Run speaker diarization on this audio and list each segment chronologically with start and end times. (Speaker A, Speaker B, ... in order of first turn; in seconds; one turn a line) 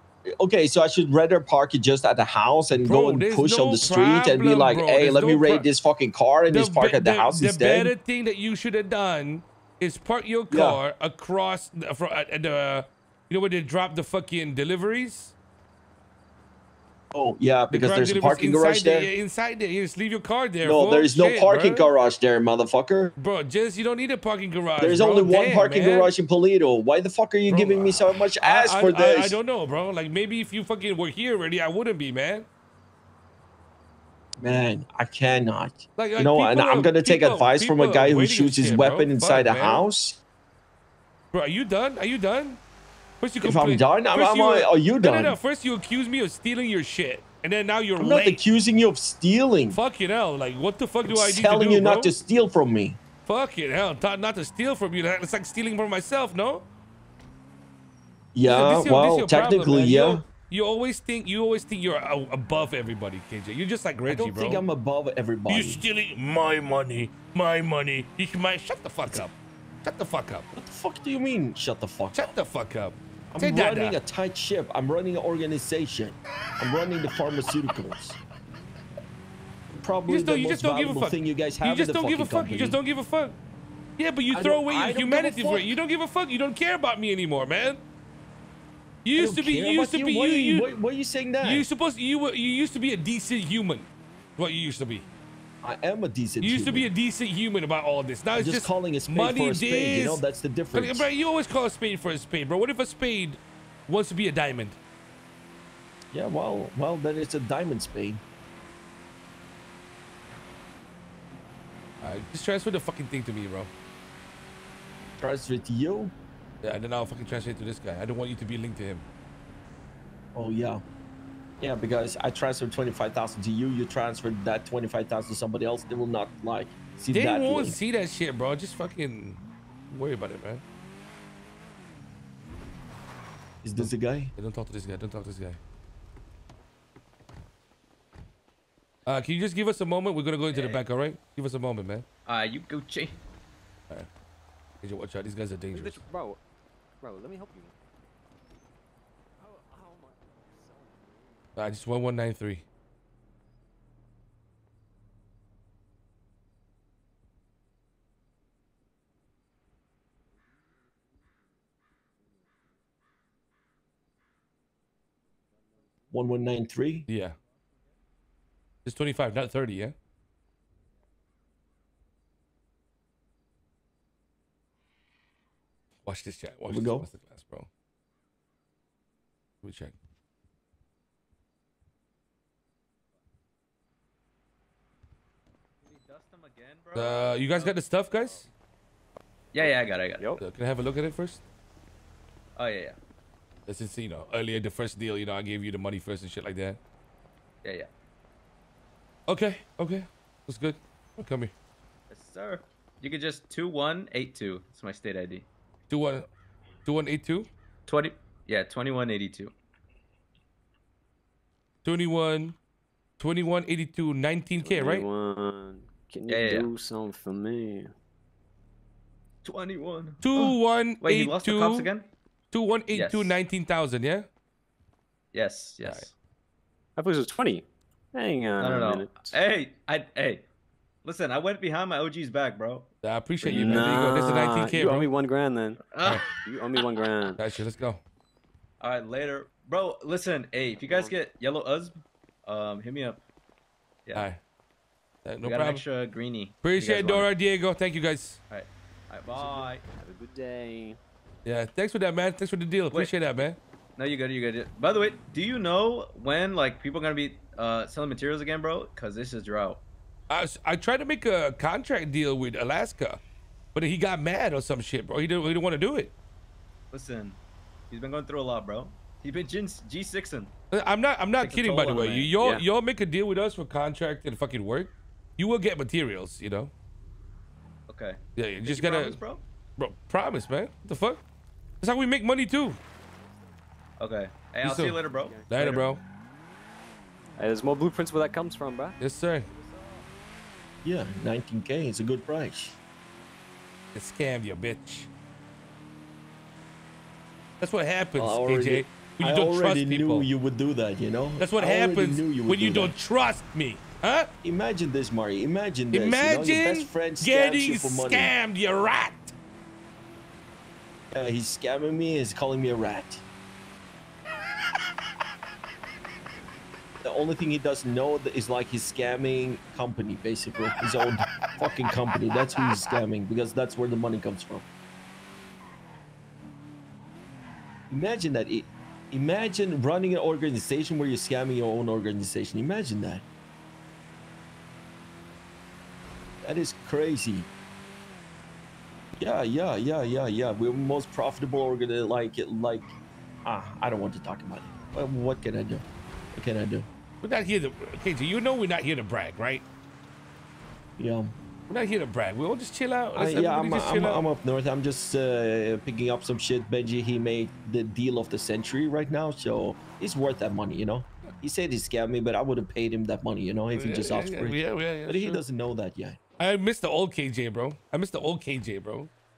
Speaker A: 0.4-7.9
Speaker B: 2.8-5.7
Speaker B: 6.5-15.3
Speaker A: 10.5-10.8
Speaker A: 17.1-19.1
Speaker B: 17.7-21.9
Speaker A: 20.6-23.1
Speaker B: 23.2-26.1
Speaker A: 24.8-29.4
Speaker B: 27.5-32.5
Speaker A: 34.4-40.2
Speaker B: 36.0-39.9
Speaker B: 41.3-42.6
Speaker B: 43.2-48.4
Speaker A: 43.4-45.4
Speaker A: 48.0-49.8
Speaker B: 49.7-52.1
Speaker A: 51.1-53.0
Speaker B: 53.2-56.7
Speaker A: 58.4-60.2
Speaker B: 58.5-64.6
Speaker A: 64.1-65.8
Speaker B: 65.5-70.5
Speaker A: 70.5-72.3
Speaker B: 72.1-74.0
Speaker A: 73.3-78.2
Speaker A: 79.7-82.8
Speaker B: 80.1-83.4
Speaker B: 84.0-87.8
Speaker A: 84.3-85.7
Speaker B: 89.0-90.7
Speaker A: 89.2-91.7
Speaker B: 91.4-95.1
Speaker A: 95.6-96.9
Speaker B: 96.4-100.2
Speaker A: 98.4-101.1
Speaker B: 100.7-104.8
Speaker A: 106.1-108.2
Speaker B: 112.0-113.7
Speaker A: 115.2-116.1
Speaker B: 116.6-119.1
Speaker A: 120.3-120.8
Speaker A: 121.6-127.8
Speaker B: 127.1-130.6
Speaker A: 133.6-134.3
Speaker B: 133.8-135.6
Speaker B: 139.1-142.1
Speaker C: 140.5-140.8
Speaker C: 142.3-143.2
Speaker B: 144.8-146.0
Speaker D: 145.7-146.4
Speaker D: 147.0-147.7
Speaker B: 151.6-152.7
Speaker A: 166.1-167.1
Speaker B: 167.1-167.4
Speaker B: 168.8-169.9
Speaker B: 176.1-177.7
Speaker A: 176.7-177.1
Speaker B: 179.6-180.0
Speaker C: 185.8-187.8
Speaker B: 186.9-188.5
Speaker C: 189.5-190.3
Speaker D: 189.6-190.4
Speaker B: 190.4-191.4
Speaker C: 192.6-193.0
Speaker B: 193.7-196.8
Speaker C: 197.6-197.9
Speaker B: 199.3-201.5
Speaker C: 202.1-205.5
Speaker B: 205.9-206.3
Speaker B: 206.8-207.5
Speaker C: 207.9-209.5
Speaker B: 211.8-212.6
Speaker B: 213.2-215.1
Speaker D: 214.6-217.9
Speaker C: 216.3-216.7
Speaker C: 219.4-222.1
Speaker B: 220.2-221.9
Speaker B: 222.5-224.3
Speaker C: 222.9-223.4
Speaker C: 225.3-226.1
Speaker D: 227.0-229.3
Speaker C: 228.6-230.4
Speaker C: 231.0-232.9
Speaker B: 233.0-235.1
Speaker D: 233.4-237.4
Speaker C: 235.9-236.4
Speaker B: 237.4-238.0
Speaker C: 238.8-243.2
Speaker D: 240.8-241.1
Speaker B: 244.1-244.4
Speaker B: 245.2-245.8
Speaker C: 245.4-247.3
Speaker B: 246.6-248.4
Speaker C: 248.5-249.8
Speaker D: 249.3-251.0
Speaker B: 251.4-253.6
Speaker C: 252.9-253.4
Speaker C: 254.0-259.8
Speaker B: 260.3-263.2
Speaker B: 263.7-266.1
Speaker C: 266.9-267.4
Speaker C: 267.9-270.5
Speaker B: 270.7-276.7
Speaker C: 271.4-272.6
Speaker C: 277.9-279.4
Speaker B: 278.4-279.2
Speaker B: 279.8-281.2
Speaker B: 281.8-282.8
Speaker C: 284.0-285.7
Speaker B: 284.6-285.0
Speaker D: 284.8-285.9
Speaker B: 285.5-286.0
Speaker D: 287.4-289.0
Speaker B: 289.0-289.5
Speaker A: 290.8-292.8
Speaker B: 293.9-295.1
Speaker B: 297.6-300.3
Speaker A: 298.2-302.9
Speaker B: 301.4-304.3
Speaker A: 304.4-308.3
Speaker B: 305.9-309.4
Speaker A: 311.1-313.2
Speaker A: 317.0-324.6
Speaker A: 327.9-333.2
Speaker A: 336.4-337.5
Speaker A: 339.2-342.9
Speaker A: 343.4-346.9
Speaker B: 347.2-349.7
Speaker A: 351.0-351.3
Speaker B: 351.7-354.2
Speaker A: 353.1-366.2
Speaker B: 363.8-365.4
Speaker B: 366.4-369.1